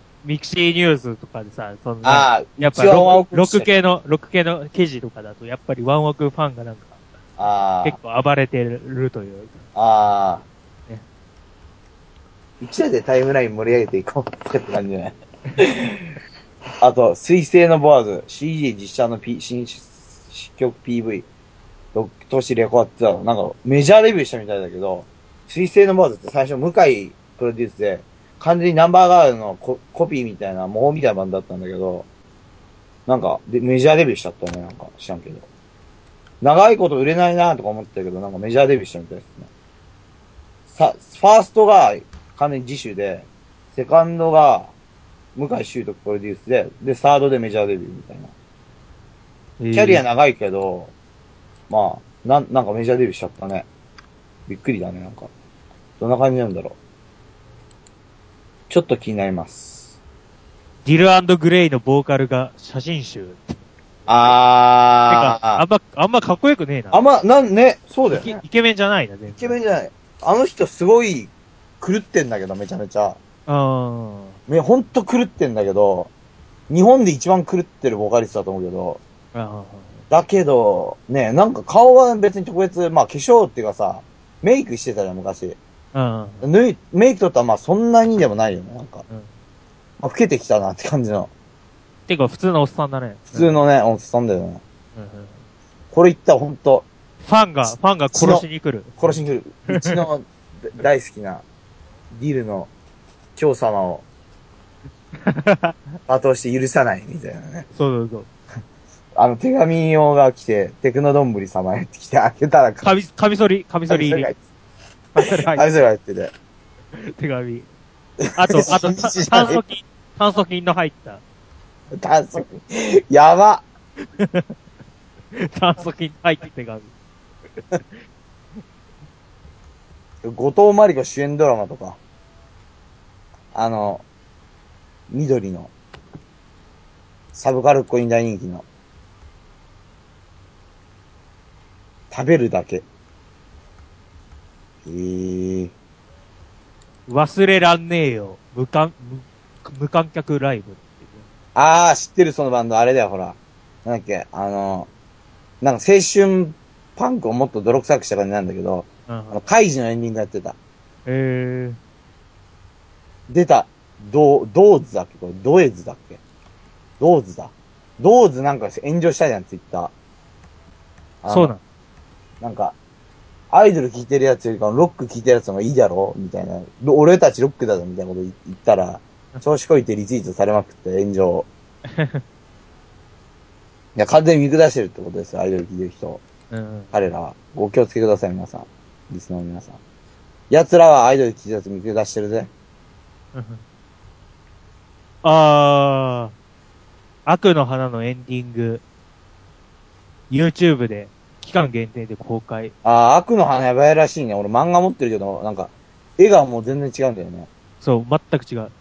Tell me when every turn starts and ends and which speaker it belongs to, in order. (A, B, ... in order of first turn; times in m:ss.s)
0:00.2-0:07.0 A
0:02.0-0:03.7 B
0:07.4-0:08.0 B
0:07.8-0:09.6 A
0:09.8-0:10.4 B
0:12.6-0:16.1 B
0:16.8-0:21.3 B
0:21.9-0:32.0 B
0:33.1-0:35.5 B
0:36.4-0:39.5 B
0:40.7-0:44.7 B
0:45.4-0:48.3 B
0:49.6-0:50.0 A
0:49.7-0:50.9 B
0:51.7-0:53.7 B
0:54.5-0:55.3 B
0:56.0-0:56.8 B
0:58.7-1:00.0 B
1:00.8-1:03.4 A
1:04.1-1:05.6 B
1:05.1-1:07.0 A
1:06.9-1:08.4 B
1:08.1-1:09.6 A
1:09.3-1:13.2 B
1:13.5-1:14.4 A
1:14.5-1:16.1 B
1:16.7-1:19.0 B
1:19.3-1:20.0 A
1:20.1-1:25.6 B
1:25.9-1:26.4 A
1:26.4-1:29.0 B
1:30.0-1:31.3 B
1:32.1-1:33.5 A
1:33.3-1:34.6 B
1:35.0-1:35.4 A
1:35.9-1:36.9 B
1:37.2-1:40.0 A
1:37.7-1:38.5 B
1:39.0-1:41.4 B
1:42.1-1:42.7 B
1:43.4-1:44.0 B
1:45.2-1:45.8 A
1:46.1-1:47.7 B
1:47.7-1:48.3 A
1:49.2-1:52.9 B
1:52.8-1:54.3 A
1:53.9-1:54.4 B
1:55.1-1:55.7 A
1:55.2-1:56.3 B
1:57.0-1:57.7 A
1:58.4-2:01.2 A
1:58.4-1:59.6 B
2:01.9-2:03.6 B
2:04.2-2:04.5 A
2:05.3-2:06.9 A
2:10.2-2:12.0 B
2:13.5-2:14.0 B
2:15.1-2:15.7 B
2:17.3-2:18.6 B
2:22.1-2:22.8 B
2:24.8-2:25.7 B
2:27.1-2:31.2 A
2:31.6-2:34.9 B
2:35.6-2:40.6 B
2:39.1-2:39.4 A
2:41.1-2:41.8 A
2:43.3-2:46.2 B
2:47.0-2:49.9 B
2:51.2-2:51.5 B
2:51.3-2:51.6 A
2:52.4-2:52.8 B
2:53.5-3:01.5 B
3:01.9-3:02.2 A
3:04.0-3:06.2 B
3:06.5-3:06.9 A
3:06.9-3:09.8 B
3:10.5-3:12.5 B
3:13.3-3:13.6 A
3:15.2-3:16.3 A
3:17.3-3:18.8 A
3:20.3-3:22.7 A
3:22.8-3:27.5 B
3:27.8-3:28.7 A